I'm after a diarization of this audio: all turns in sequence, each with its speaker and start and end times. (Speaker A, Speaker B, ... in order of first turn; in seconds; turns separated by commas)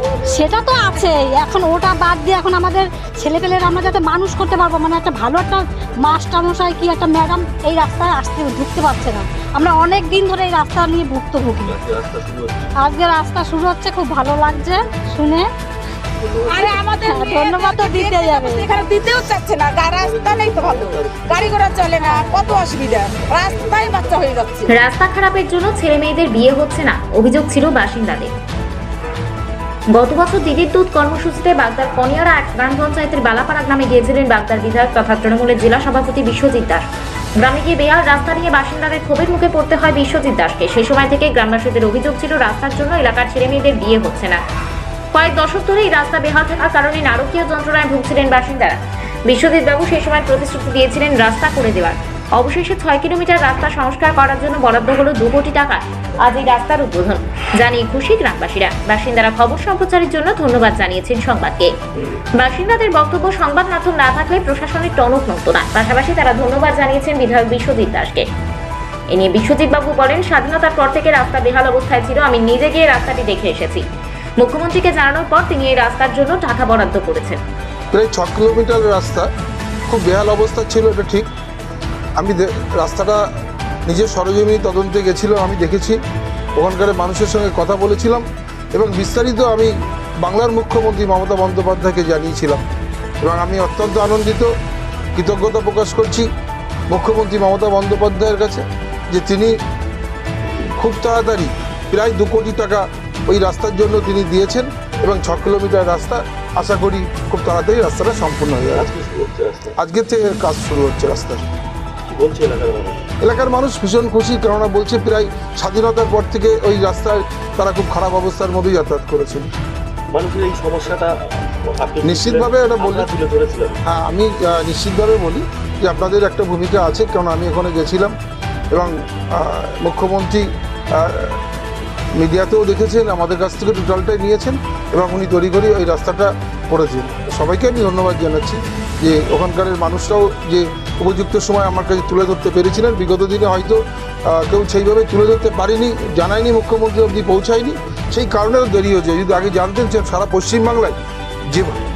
Speaker A: 0.2-11.8, Speaker B: 11.6-12.7, Speaker A: 12.8-15.5, Speaker B: 16.2-17.0, Speaker C: 16.5-24.7, Speaker A: 17.0-18.9, Speaker B: 19.0-19.3, Speaker B: 19.9-24.3, Speaker A: 22.0-22.3, Speaker D: 24.7-28.3, Speaker D: 29.9-36.9, Speaker D: 37.4-44.4, Speaker D: 45.1-61.7, Speaker D: 62.4-68.3, Speaker D: 69.1-73.8, Speaker D: 74.4-77.4, Speaker E: 77.9-79.3, Speaker E: 79.9-81.3, Speaker E: 82.2-83.2, Speaker E: 83.9-86.0, Speaker E: 86.6-92.6, Speaker E: 93.2-94.5, Speaker E: 95.2-96.3, Speaker E: 96.9-99.6, Speaker E: 100.8-108.9, Speaker B: 108.8-109.8, Speaker E: 109.8-111.4, Speaker B: 112.1-113.0, Speaker E: 113.2-119.5, Speaker B: 120.1-123.8, Speaker E: 122.0-123.1, Speaker E: 123.8-128.2, Speaker E: 128.7-131.4, Speaker E: 132.2-151.0, Speaker E: 151.5-151.8